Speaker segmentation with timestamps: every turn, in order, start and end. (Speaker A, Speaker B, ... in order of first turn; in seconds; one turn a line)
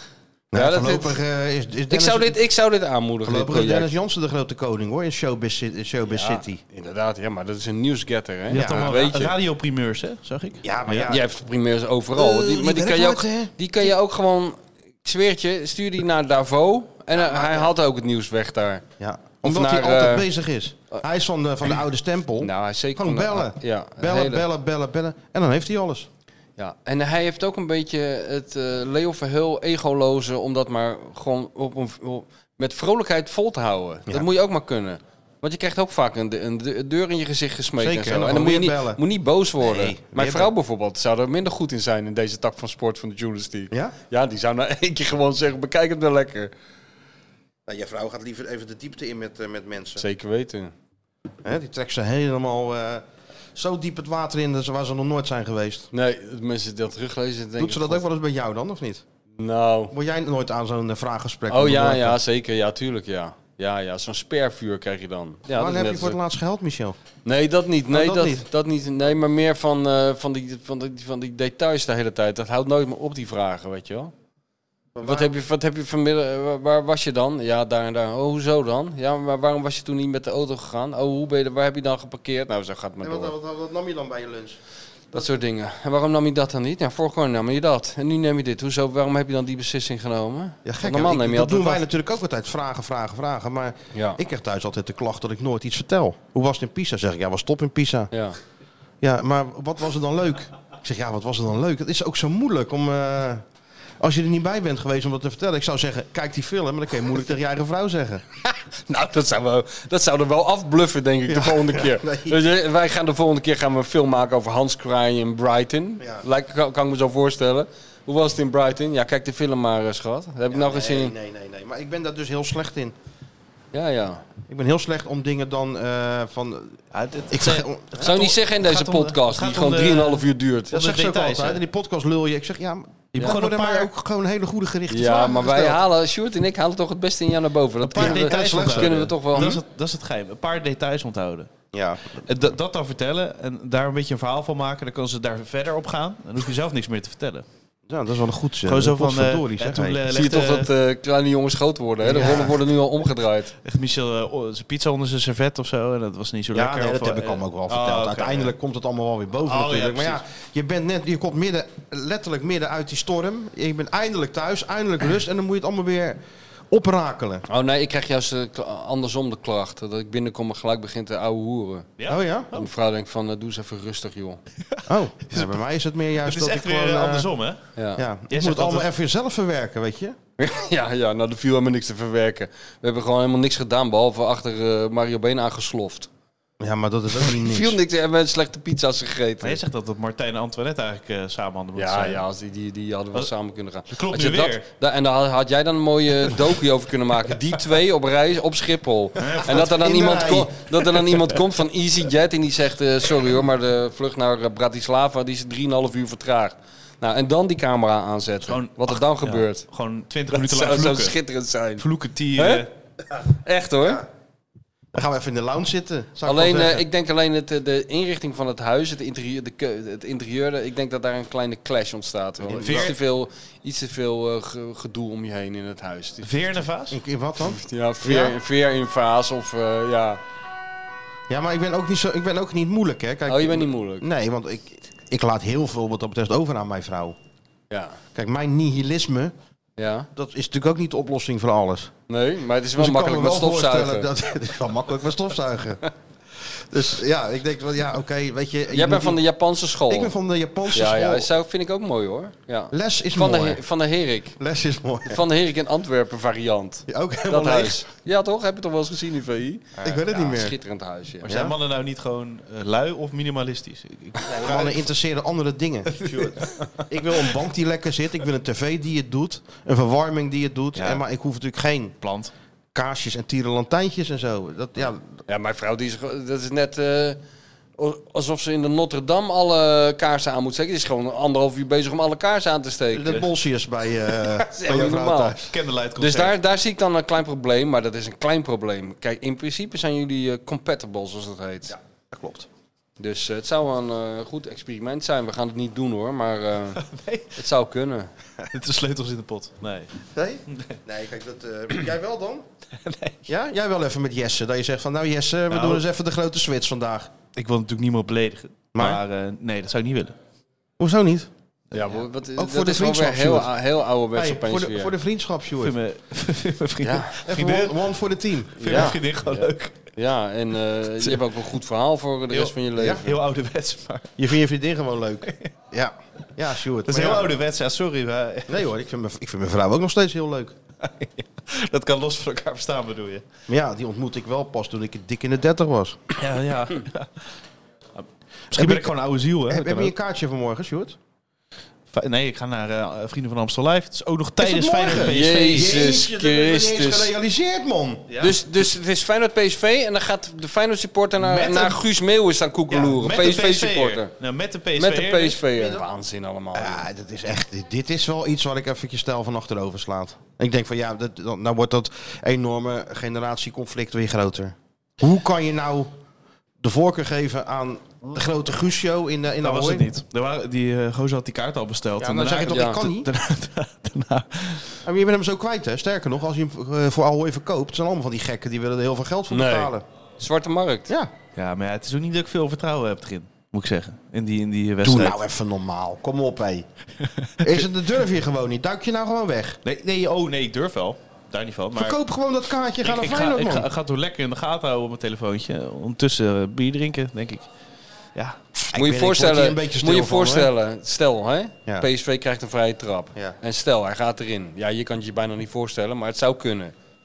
Speaker A: 0.5-2.4
Speaker B: 0.5-1.2
Speaker B: 1.9-3.9
Speaker A: 3.2-6.6
Speaker B: 6.1-9.3
Speaker C: 8.5-11.1
Speaker A: 10.6-11.2
Speaker B: 11.1-18.8
Speaker A: 12.2-13.5
Speaker A: 17.1-17.7
Speaker A: 19.0-26.1
Speaker B: 19.4-20.3
Speaker B: 22.4-24.4
Speaker B: 26.6-46.5
Speaker A: 37.8-39.0
Speaker A: 39.6-40.5
Speaker A: 43.7-44.0
Speaker A: 47.7-50.0
Speaker B: 50.0-50.7
Speaker A: 51.4-55.9
Speaker B: 55.9-58.0
Speaker A: 57.6-59.0
Speaker B: 59.4-59.9
Speaker A: 59.9-62.2
Speaker B: 61.5-66.2
Speaker A: 65.5-67.0
Speaker B: 67.2-74.1
Speaker A: 67.9-68.5
Speaker A: 75.0-75.3
Speaker B: 75.0-83.3
Speaker A: 83.0-84.6
Speaker B: 85.1-91.8
Speaker A: 90.7-98.1
Speaker B: 93.9-94.2
Speaker B: 98.1-98.4
Speaker A: 99.0-103.4
Speaker A: 104.0-108.2
Speaker B: 108.9-121.1
Speaker A: 111.3-112.4
Speaker A: 116.0-116.2
Speaker A: 120.5-123.0
Speaker B: 123.7-124.2
Speaker A: 124.5-128.2
Speaker C: 126.9-131.6
Speaker B: 128.0-130.8
Speaker A: 130.7-135.8
Speaker C: 133.2-133.9
Speaker B: 134.9-139.6
Speaker C: 137.8-141.5
Speaker A: 138.0-139.6
Speaker A: 141.7-142.2
Speaker C: 142.2-147.4
Speaker A: 147.9-150.0
Speaker C: 148.7-150.7
Speaker B: 150.1-153.5
Speaker A: 152.0-152.5
Speaker C: 153.6-158.5
Speaker A: 156.5-166.2
Speaker C: 159.5-160.2
Speaker A: 166.7-167.5
Speaker B: 167.5-171.9
Speaker C: 172.0-172.7
Speaker A: 172.1-172.5
Speaker B: 172.5-174.4
Speaker C: 174.7-175.6
Speaker A: 174.9-177.3
Speaker C: 176.2-177.6
Speaker B: 177.8-178.0
Speaker A: 178.0-180.2
Speaker C: 178.3-178.9
Speaker B: 180.4-186.1
Speaker A: 186.6-187.8
Speaker B: 187.3-189.6
Speaker C: 189.4-192.2
Speaker B: 191.8-209.7
Speaker C: 193.9-194.7
Speaker C: 199.2-200.3
Speaker A: 199.5-200.5
Speaker C: 208.5-211.2
Speaker B: 210.3-211.8
Speaker C: 211.8-212.7
Speaker B: 212.4-212.7
Speaker B: 213.3-214.0
Speaker A: 214.9-216.8
Speaker B: 216.2-226.3
Speaker A: 222.4-222.9
Speaker C: 222.6-222.9
Speaker C: 226.2-227.0
Speaker A: 226.9-228.4
Speaker B: 227.4-230.2
Speaker A: 231.3-237.2
Speaker B: 233.3-234.1
Speaker B: 237.7-238.0
Speaker A: 238.2-239.3
Speaker B: 239.8-240.1
Speaker A: 240.2-241.9
Speaker B: 242.1-244.1
Speaker A: 242.8-245.8
Speaker A: 246.5-249.2
Speaker B: 248.7-250.1
Speaker A: 249.9-251.3
Speaker B: 250.7-254.4
Speaker A: 252.7-253.6
Speaker A: 254.4-255.2
Speaker B: 255.1-261.3
Speaker A: 256.9-257.8
Speaker A: 259.8-260.6
Speaker C: 261.2-264.9
Speaker A: 261.3-261.6
Speaker A: 264.3-271.9
Speaker C: 265.9-266.8
Speaker C: 270.8-271.0
Speaker C: 272.0-272.3
Speaker A: 272.7-275.1
Speaker B: 275.3-277.2
Speaker B: 277.8-283.2
Speaker A: 282.9-285.5
Speaker B: 284.5-285.4
Speaker C: 285.5-286.4
Speaker B: 286.0-291.8
Speaker A: 291.7-292.5
Speaker B: 293.0-296.8
Speaker C: 296.8-297.3
Speaker B: 297.3-298.1
Speaker C: 298.5-299.9
Speaker A: 300.1-302.5
Speaker C: 300.5-300.8
Speaker C: 302.8-303.2
Speaker A: 303.3-307.1
Speaker C: 305.5-305.8
Speaker C: 307.3-310.1
Speaker A: 308.8-309.0
Speaker A: 310.8-311.3
Speaker B: 311.7-314.9
Speaker C: 311.7-312.0
Speaker A: 312.4-313.5
Speaker A: 314.1-315.8
Speaker C: 315.6-317.8
Speaker B: 316.8-317.2
Speaker A: 317.2-319.0
Speaker B: 318.6-323.1
Speaker C: 318.6-319.8
Speaker C: 322.3-324.2
Speaker A: 322.8-323.0
Speaker A: 324.2-327.3
Speaker C: 326.9-328.7
Speaker A: 328.5-330.6
Speaker C: 330.8-333.2
Speaker A: 333.5-336.0
Speaker C: 336.2-337.3
Speaker C: 338.0-339.9
Speaker A: 338.5-338.9
Speaker A: 339.5-341.0
Speaker C: 341.9-345.7
Speaker A: 344.4-348.1
Speaker B: 344.9-347.1
Speaker C: 348.1-348.4
Speaker B: 348.2-354.1
Speaker C: 351.2-351.8
Speaker C: 352.7-355.4
Speaker B: 354.8-356.9
Speaker A: 355.5-355.8
Speaker A: 356.5-365.9
Speaker A: 366.6-369.9
Speaker C: 369.4-374.8
Speaker A: 372.0-373.1
Speaker B: 372.5-372.8
Speaker A: 374.8-379.9
Speaker B: 379.3-380.9
Speaker C: 381.4-385.2
Speaker A: 384.8-386.7
Speaker C: 387.2-387.7
Speaker A: 387.4-389.6
Speaker C: 389.6-392.0
Speaker A: 391.7-393.7
Speaker C: 392.8-397.5
Speaker A: 398.6-400.5
Speaker B: 398.7-406.7